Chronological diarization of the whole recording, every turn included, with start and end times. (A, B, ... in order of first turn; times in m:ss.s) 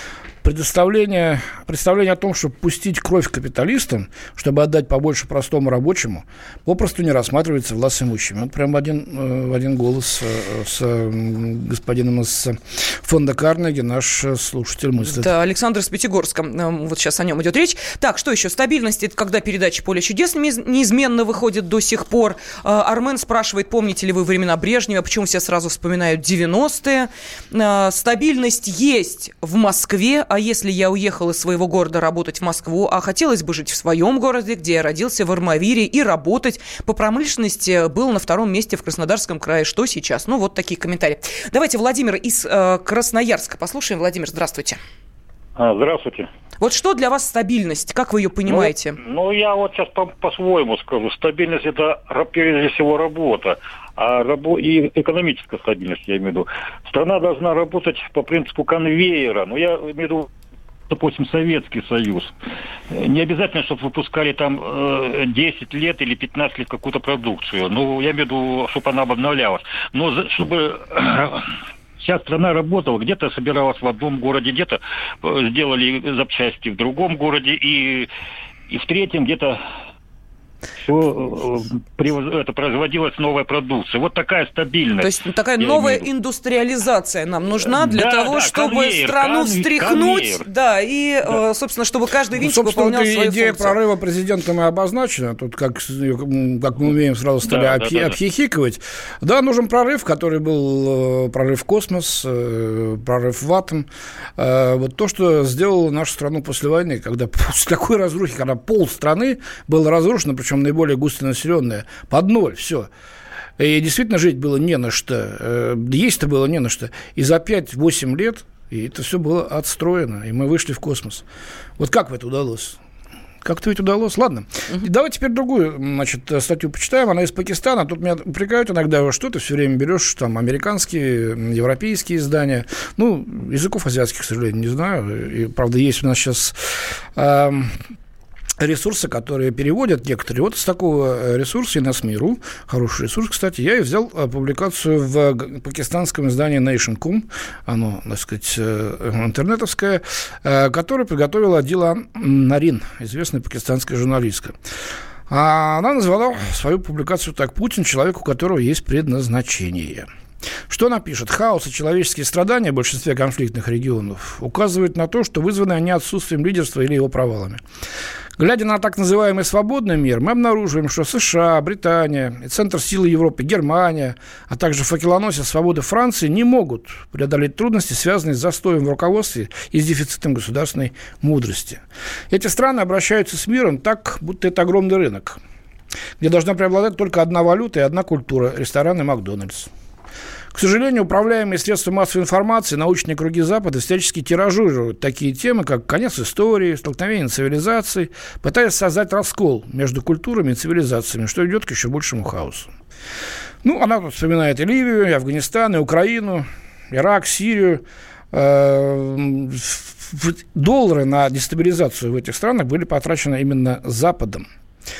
0:00.4-0:15.3 A
0:15.1-0:44.8 B
0:45.6-0:46.3 C
0:46.6-0:49.0 B
0:48.4-1:00.3 C
1:00.9-1:02.3 C
1:02.9-1:18.1 C
1:18.7-1:19.6 C
1:20.8-1:26.1 C
1:25.0-1:33.8 B
1:27.7-1:30.5 C
1:32.4-1:52.9 A
1:37.4-1:38.2 C
1:53.6-2:01.2 A
2:01.8-2:02.8 A
2:03.4-2:16.6 A
2:17.2-2:17.7 A
2:18.6-2:34.6 A
2:35.3-2:40.1 A
2:40.7-2:47.6 A
2:48.4-3:05.4 A
3:06.2-3:09.7 A
3:10.5-3:22.7 A
3:23.6-3:34.5 A